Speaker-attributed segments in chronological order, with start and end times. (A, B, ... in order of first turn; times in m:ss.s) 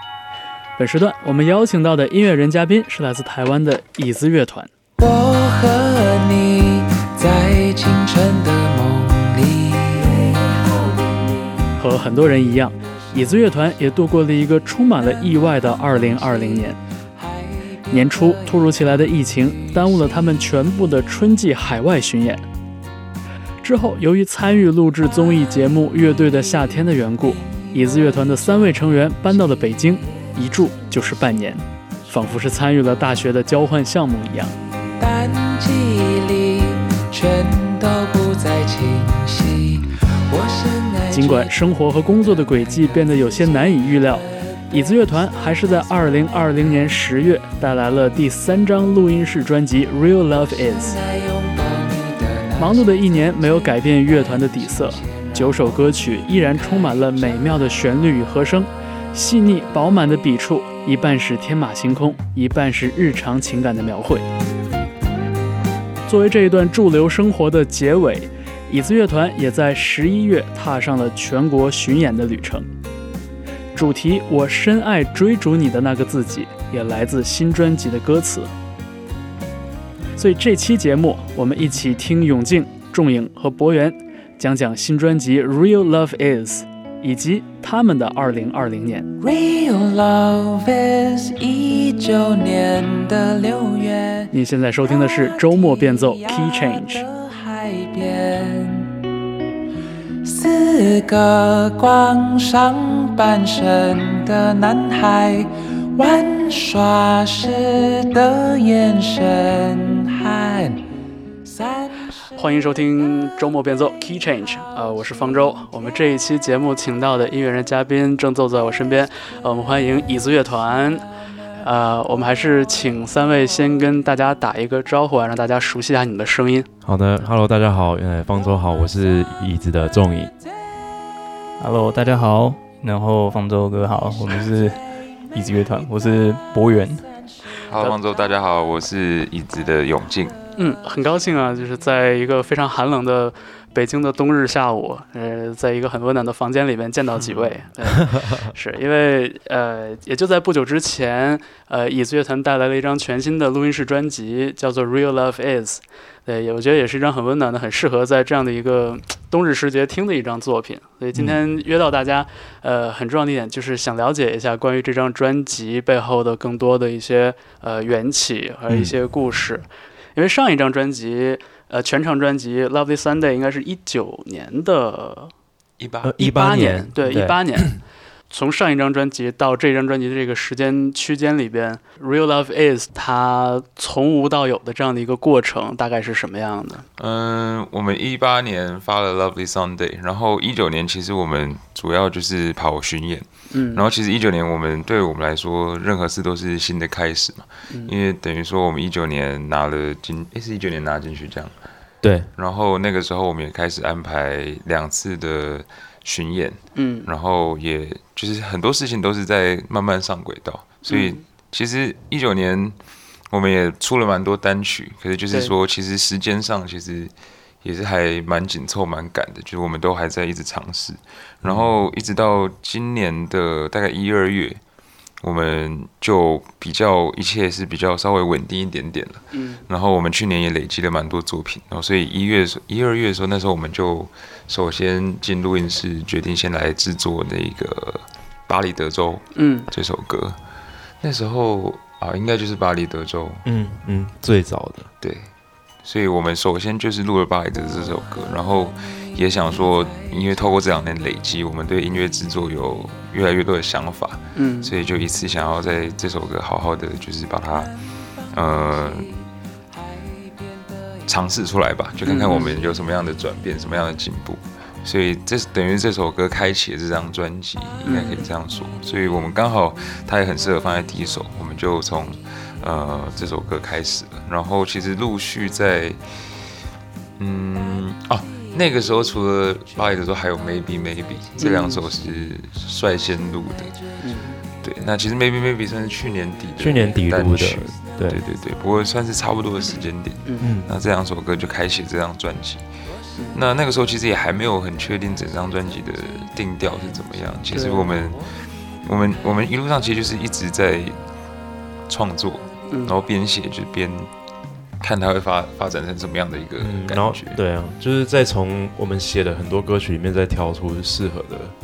0:00.8-0:04.7 A
0:05.0-0:11.2 B
0:11.8-0:16.8 A
0:17.9-0:22.4 A
0:23.6-0:34.6 A
0:35.0-0:41.5 B
0:41.1-0:51.0 A
0:50.3-0:53.0 B
0:52.6-1:04.3 A
0:54.1-0:55.8 B
1:06.1-1:12.7 A
1:13.8-1:18.5 A
1:20.2-1:29.1 A
1:29.2-1:34.3 B
1:34.3-1:37.1 A
1:35.0-1:38.9 B
1:40.2-1:50.9 B
1:51.4-1:52.1 B
1:52.4-2:01.0 A
2:01.6-2:06.7 A
2:06.8-2:10.3 C
2:11.6-2:14.8 D
2:15.3-2:17.1 D
2:17.7-2:20.4 E
2:20.6-2:55.3 A
2:48.7-2:48.9 C
2:55.8-2:56.1 E
2:56.0-2:57.8 C
2:56.2-2:57.8 A
2:58.3-3:06.9 A
3:07.0-3:21.5 E
3:13.5-3:13.9 A
3:17.7-3:17.9 A
3:22.0-3:22.3 C
3:22.4-3:32.8 E
3:26.8-3:27.1 A
3:30.9-3:31.2 A
3:33.3-3:44.6 E
3:41.4-3:41.7 C
3:45.2-4:00.4 E
3:49.3-3:49.6 A
3:59.4-3:59.7 A
4:01.0-4:03.4 E
4:03.4-4:04.9 C
4:05.0-4:05.3 E
4:05.8-4:17.8 E
4:14.4-4:14.7 A
4:18.3-4:19.2 E
4:21.1-4:36.2 E
4:22.0-4:22.6 A
4:27.8-4:28.3 A
4:37.2-4:43.8 E
4:41.4-4:41.8 A
4:44.0-4:44.4 A
4:44.6-4:52.6 E
4:46.6-4:48.2 C
4:50.4-4:50.7 C
4:53.3-5:01.0 E
4:57.5-4:58.0 A
5:01.9-5:04.1 E
5:02.7-5:03.0 A
5:04.8-5:07.4 E
5:06.6-5:11.6 C